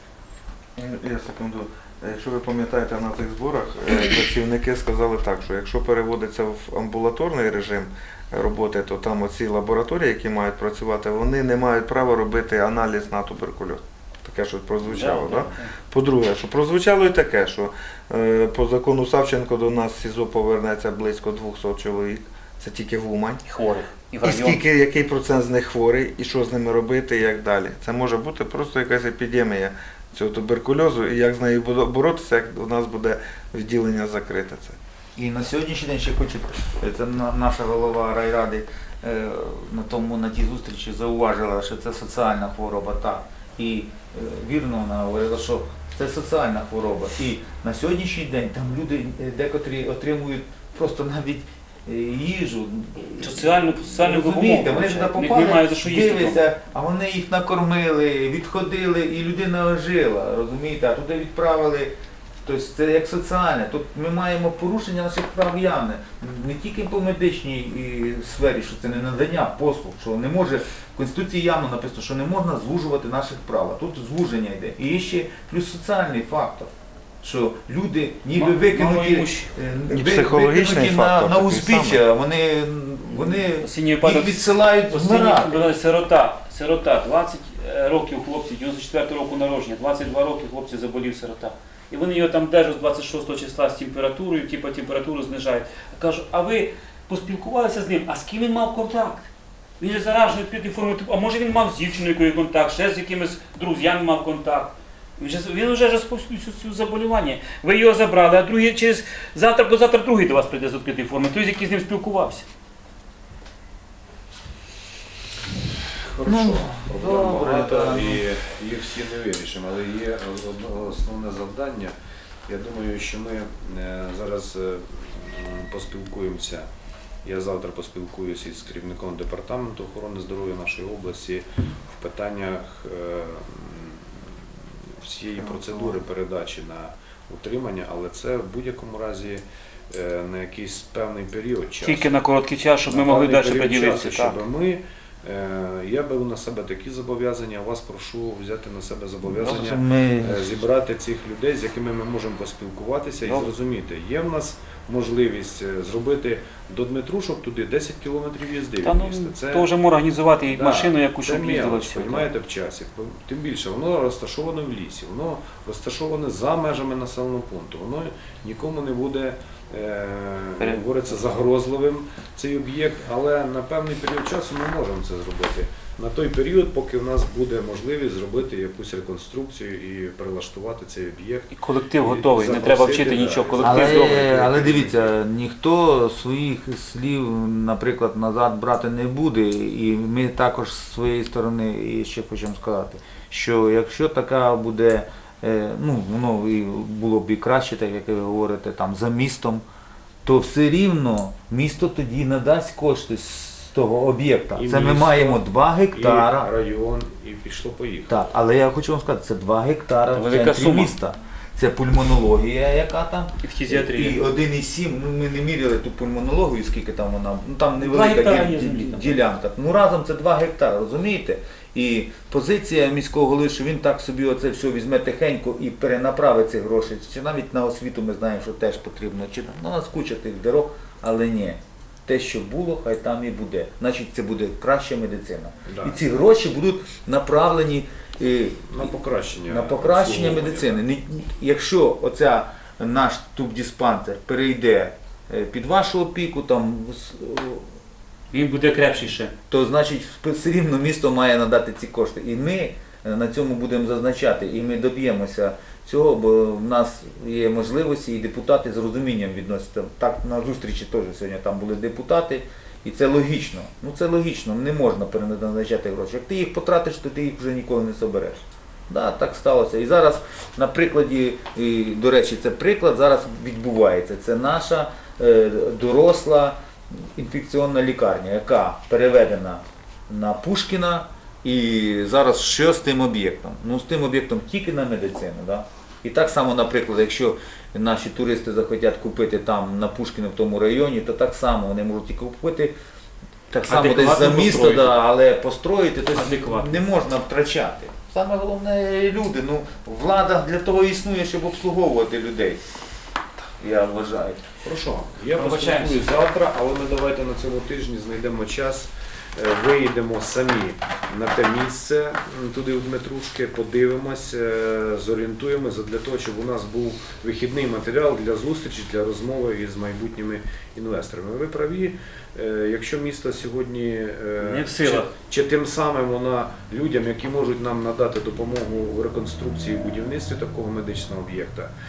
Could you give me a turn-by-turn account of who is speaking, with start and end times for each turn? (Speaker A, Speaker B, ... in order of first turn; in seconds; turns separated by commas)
Speaker A: 0.8-23.4, Speaker B: 14.9-15.7, Speaker B: 23.4-24.6, Speaker A: 24.2-34.8, Speaker C: 35.1-61.9, Speaker B: 53.2-56.4, Speaker C: 62.4-76.7, Speaker C: 77.2-85.7, Speaker B: 78.3-79.5, Speaker A: 79.9-82.0, Speaker B: 83.1-112.5, Speaker D: 116.1-121.9, Speaker C: 116.2-118.2, Speaker D: 122.5-126.7, Speaker D: 127.2-142.1, Speaker B: 141.8-144.4, Speaker D: 142.9-159.7, Speaker C: 149.3-150.6, Speaker B: 153.2-153.5, Speaker B: 158.8-162.3, Speaker D: 160.4-185.1, Speaker B: 181.5-184.2, Speaker C: 183.6-199.6, Speaker C: 200.2-206.5, Speaker D: 204.5-208.2, Speaker C: 208.1-238.9, Speaker B: 210.1-210.9, Speaker B: 213.4-214.2, Speaker B: 217.8-219.2, Speaker D: 235.7-236.0, Speaker D: 238.7-240.8, Speaker C: 239.4-247.7, Speaker B: 248.3-249.3, Speaker C: 249.5-292.7, Speaker C: 293.5-302.6, Speaker B: 293.6-295.0, Speaker B: 296.1-296.8, Speaker C: 303.6-304.4, Speaker D: 304.6-331.7, Speaker B: 305.3-306.1, Speaker B: 324.4-325.1